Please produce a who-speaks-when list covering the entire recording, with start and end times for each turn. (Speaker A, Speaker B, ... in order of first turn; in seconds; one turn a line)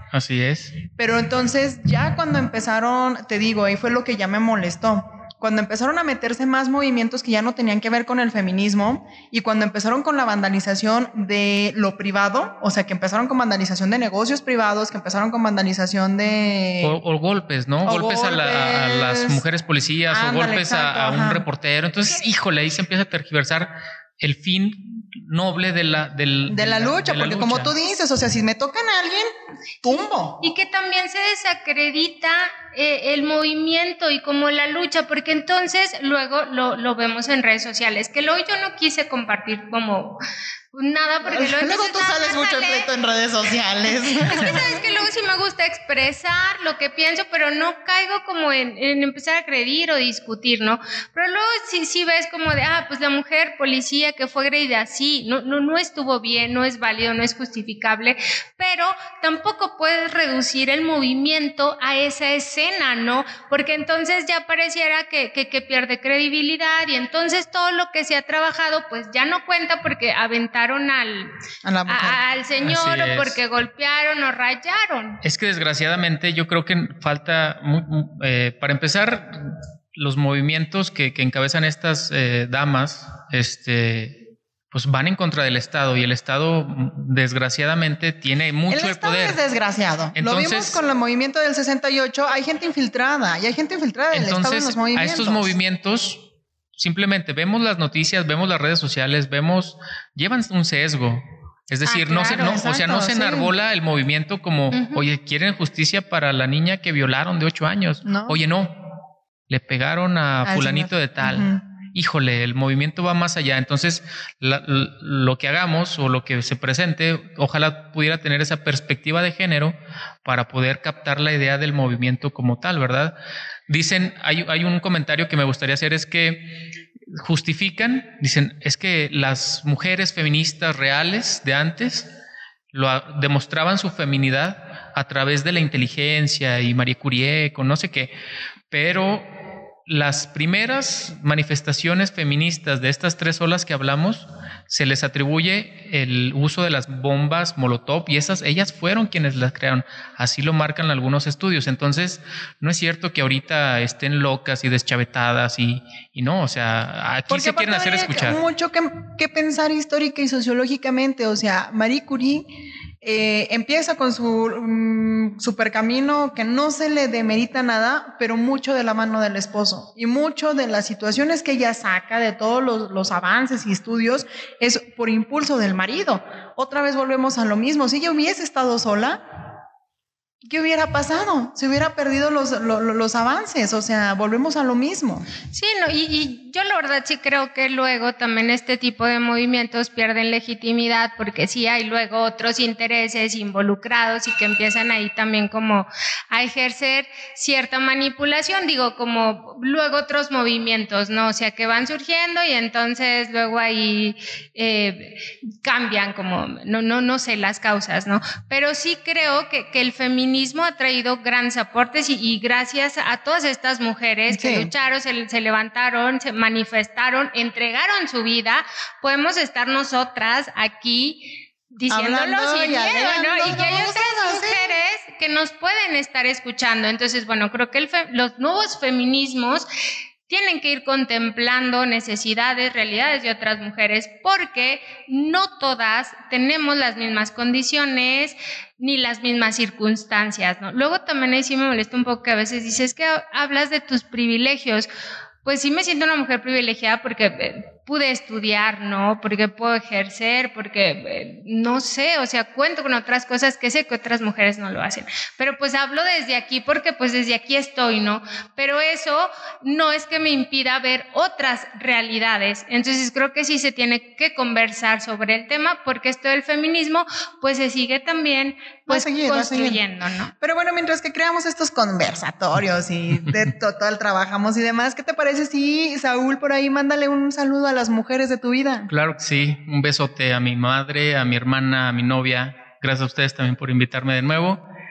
Speaker A: 0.1-0.8
Speaker B: 0.9-17.0
Speaker A: 16.8-27.7
Speaker B: 17.8-19.4
Speaker B: 20.1-21.4
Speaker B: 26.5-29.3
Speaker B: 29.8-30.4
Speaker C: 30.4-40.2
Speaker C: 40.7-42.9
Speaker B: 41.2-44.8
Speaker C: 44.1-71.3
Speaker B: 71.6-72.2
Speaker C: 71.9-75.2
Speaker A: 72.6-73.4
Speaker A: 75.2-84.2
Speaker A: 84.7-89.4
Speaker B: 88.7-95.5
Speaker A: 90.2-90.8
Speaker A: 94.1-96.2
Speaker A: 96.7-108.8
Speaker B: 101.9-103.5
Speaker C: 102.0-102.6
Speaker C: 104.7-105.0
Speaker B: 108.0-108.4
Speaker A: 109.5-123.2
Speaker B: 110.4-111.6
Speaker A: 123.7-132.1
Speaker A: 132.7-138.1
Speaker A: 138.7-139.3
Speaker A: 139.8-158.4
Speaker B: 157.3-162.5
Speaker B: 163.0-179.2
Speaker B: 180.4-185.3
Speaker C: 185.5-229.7
Speaker B: 214.3-214.7
Speaker B: 221.9-224.8
Speaker C: 230.3-244.9
Speaker C: 245.4-270.3
Speaker B: 268.9-269.8
Speaker B: 270.4-278.9
Speaker A: 278.9-284.6